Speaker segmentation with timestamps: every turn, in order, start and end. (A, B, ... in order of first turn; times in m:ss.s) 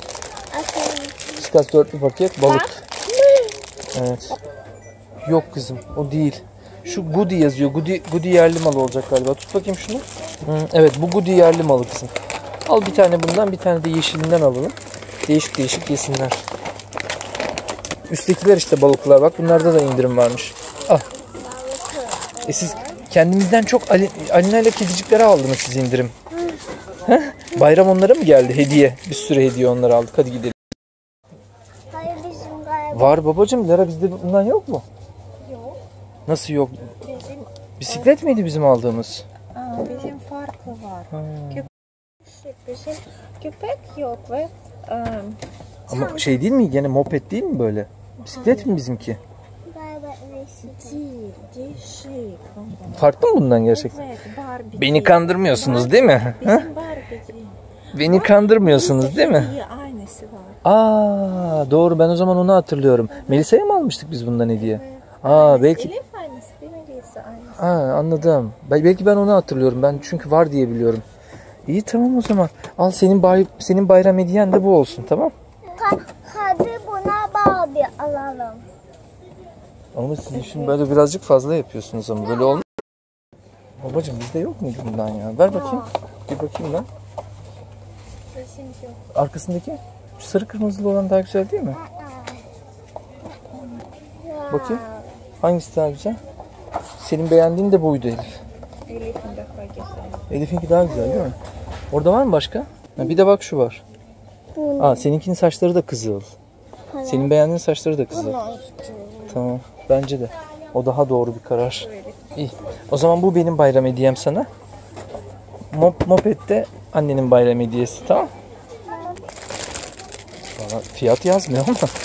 0:00.5-0:01.2 A
0:01.4-0:02.8 B
0:03.9-0:04.4 B
0:05.2-0:12.1 B
0:12.6-0:16.4 B
0:18.1-0:21.0 B
0:21.4-0:23.0 A
0:22.4-0:26.1 B
0:27.0-0:30.6 B
0:31.9-0:33.2 A
0:32.9-0:34.8 B
0:35.4-0:35.8 C
0:36.3-0:36.9 B
0:37.0-0:37.9 C
0:37.8-0:39.2 B
0:39.5-0:41.7 C
0:39.8-0:40.1 A
0:41.1-0:41.7 B
0:42.3-0:45.4 C
0:45.9-0:46.4 A
0:45.9-0:49.2 B
0:48.3-0:48.7 C
0:49.6-0:51.0 A
0:50.7-0:53.1 C
0:52.8-0:54.0 B
0:53.7-1:00.6 C
0:54.7-0:56.7 B
0:57.9-0:59.5 B
1:00.6-1:05.9 B
1:03.1-1:03.5 C
1:04.6-1:07.7 C
1:07.5-1:11.0 B
1:11.7-1:15.3 B
1:15.7-1:18.6 A
1:19.9-1:22.6 B
1:23.8-1:26.9 B
1:25.5-1:25.9 A
1:28.3-1:29.0 C
1:29.1-1:31.8 B
1:32.0-1:32.4 A
1:34.2-1:35.1 A
1:34.5-1:34.8 B
1:35.4-1:36.2 B
1:37.0-1:38.4 B
1:38.9-1:40.2 C
1:40.3-1:41.4 B
1:41.9-1:43.8 B
1:44.5-1:45.1 A
1:44.8-1:46.3 B
1:46.9-1:47.4 A
1:47.0-1:48.4 B
1:48.1-1:49.4 A
1:49.3-1:54.5 B
1:55.7-1:58.3 B
1:58.9-1:59.2 A
2:00.5-2:01.9 B